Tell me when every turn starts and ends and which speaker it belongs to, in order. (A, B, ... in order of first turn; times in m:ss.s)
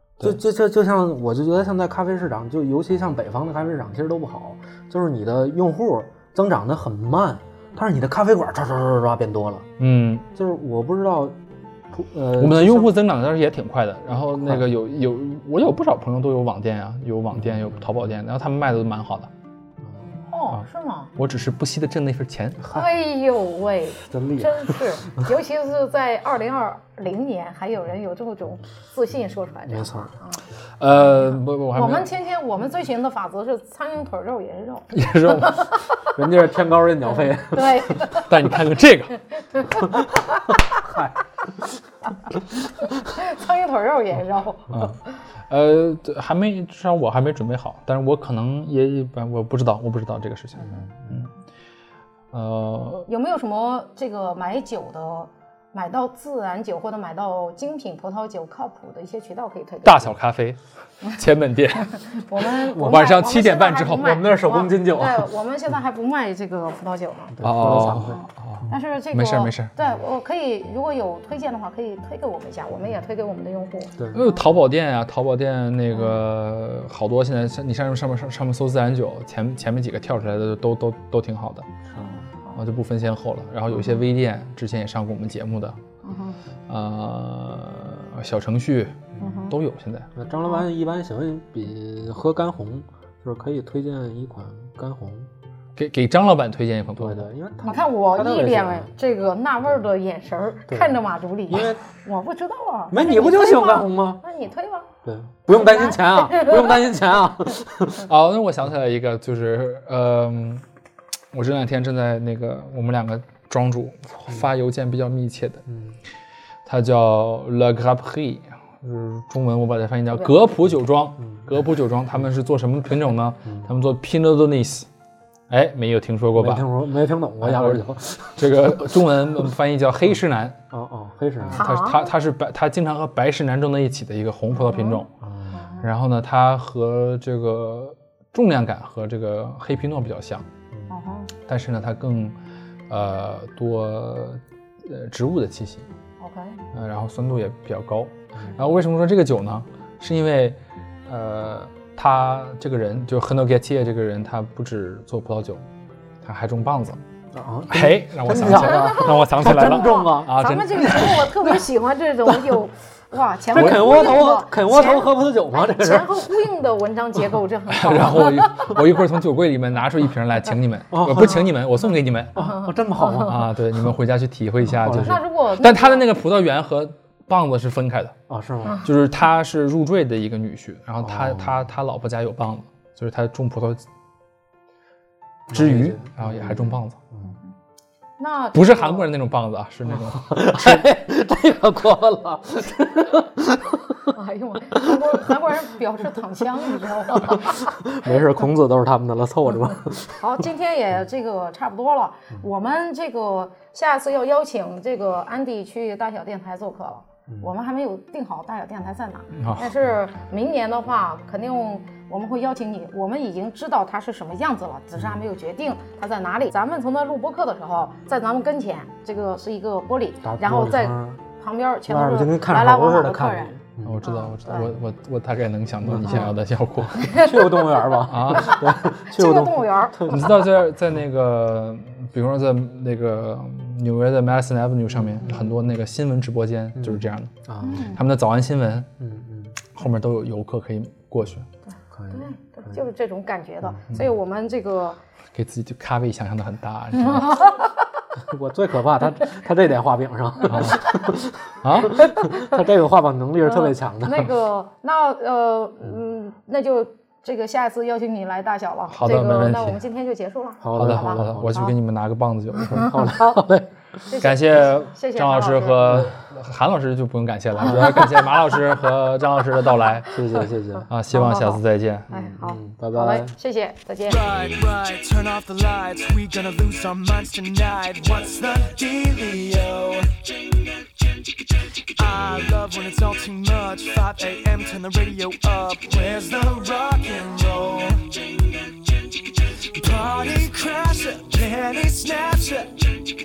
0:00.2-0:09.7 A
0:09.8-0:10.2 B
0:10.3-0:11.4 A
0:11.9-0:12.9 A
0:12.4-0:19.3 B
0:14.4-0:14.6 A
0:19.8-0:20.1 A
0:20.3-0:21.1 C
0:21.2-0:22.6 B
0:22.7-0:30.4 C
0:24.0-0:25.0 A
0:29.7-0:30.1 A
0:30.8-0:32.1 B
0:31.0-0:36.1 C
0:34.9-0:35.7 B
0:36.2-0:38.0 A
0:37.4-0:38.3 C
0:38.1-0:39.2 B
0:39.5-0:40.6 C
0:40.5-0:41.8 A
0:42.8-0:45.2 C
0:45.5-0:51.3 B
0:50.6-0:51.2 A
0:52.3-0:53.1 B
0:53.1-1:00.1 C
0:59.8-1:01.9 B
1:01.8-1:14.4 C
1:02.7-1:03.1 A
1:02.8-1:04.2 B
1:04.0-1:05.3 A
1:07.4-1:08.2 A
1:07.4-1:09.7 B
1:14.1-1:21.8 B
1:15.9-1:16.2 C
1:21.9-1:22.2 A
1:22.5-1:25.8 B
1:26.0-1:26.4 C
1:26.7-1:30.1 B
1:29.2-1:29.6 C
1:30.2-1:35.3 A
1:35.8-1:37.3 B
1:37.0-1:38.9 A
1:37.6-1:44.9 C
1:40.7-1:41.0 A
1:41.5-1:41.8 A
1:42.9-1:44.2 A
1:45.0-1:48.1 A
1:45.5-1:46.9 C
1:48.0-1:50.6 B
1:51.3-1:55.6 B
1:55.7-1:56.0 A
1:56.6-2:04.9 B
2:05.5-2:06.7 B
2:06.4-2:08.8 A
2:07.4-2:10.6 B
2:10.7-2:11.6 A
2:11.5-2:15.1 B
2:11.5-2:12.1 C
2:14.5-2:15.9 C
2:15.2-2:15.6 A
2:15.8-2:20.5 B
2:20.9-2:21.3 C
2:21.5-2:22.4 B
2:22.9-2:25.8 B
2:26.2-2:26.6 C
2:26.7-2:35.6 B
2:36.2-2:37.0 B
2:37.3-2:41.4 A
2:37.7-2:41.3 B
2:38.5-2:48.8 C
2:42.3-2:42.6 A
2:43.5-2:46.3 A
2:43.5-2:44.2 B
2:47.7-2:52.5 B
2:50.9-2:51.5 A
2:51.2-2:53.4 C
2:52.3-2:53.6 A
2:53.2-2:58.2 B
2:54.7-2:55.2 A
2:55.0-2:56.0 C
2:58.3-2:58.9 A
2:58.8-3:03.8 B
3:01.0-3:01.6 A
3:05.5-3:07.4 A
3:05.5-3:07.0 B
3:08.2-3:09.1 C
3:08.5-3:10.8 B
3:10.0-3:14.1 A
3:14.1-3:17.7 C
3:14.7-3:15.1 A
3:17.0-3:20.2 A
3:20.2-3:44.7 C
3:29.3-3:29.7 B
3:40.2-3:41.2 A
3:41.9-3:44.0 A
3:43.8-3:47.3 B
3:45.8-3:46.3 A
3:46.9-3:50.5 A
3:47.0-3:50.2 C
3:48.0-3:48.6 B
3:50.1-3:58.9 B
3:54.9-3:55.5 A
3:56.8-3:58.0 A
3:57.6-3:58.0 C
3:59.0-3:59.6 A
3:59.7-4:01.5 B
4:01.9-4:02.8 A
4:02.1-4:05.0 C
4:05.3-4:07.5 B
4:07.0-4:07.7 C
4:08.2-4:14.3 A
4:10.5-4:10.9 B
4:11.6-4:12.0 B
4:12.0-4:12.6 C
4:13.5-4:21.7 C
4:18.9-4:19.8 B
4:20.6-4:21.6 A
4:20.7-4:23.0 B
4:22.6-4:24.0 A
4:22.9-4:23.4 C
4:24.1-4:26.1 C
4:24.2-4:30.2 B
4:25.9-4:26.2 A
4:27.6-4:28.2 A
4:27.6-4:28.0 C
4:30.1-4:30.9 A
4:30.9-4:32.1 B
4:31.1-4:34.2 C
4:32.1-4:33.3 A
4:34.0-4:40.6 D
4:42.0-4:53.0 D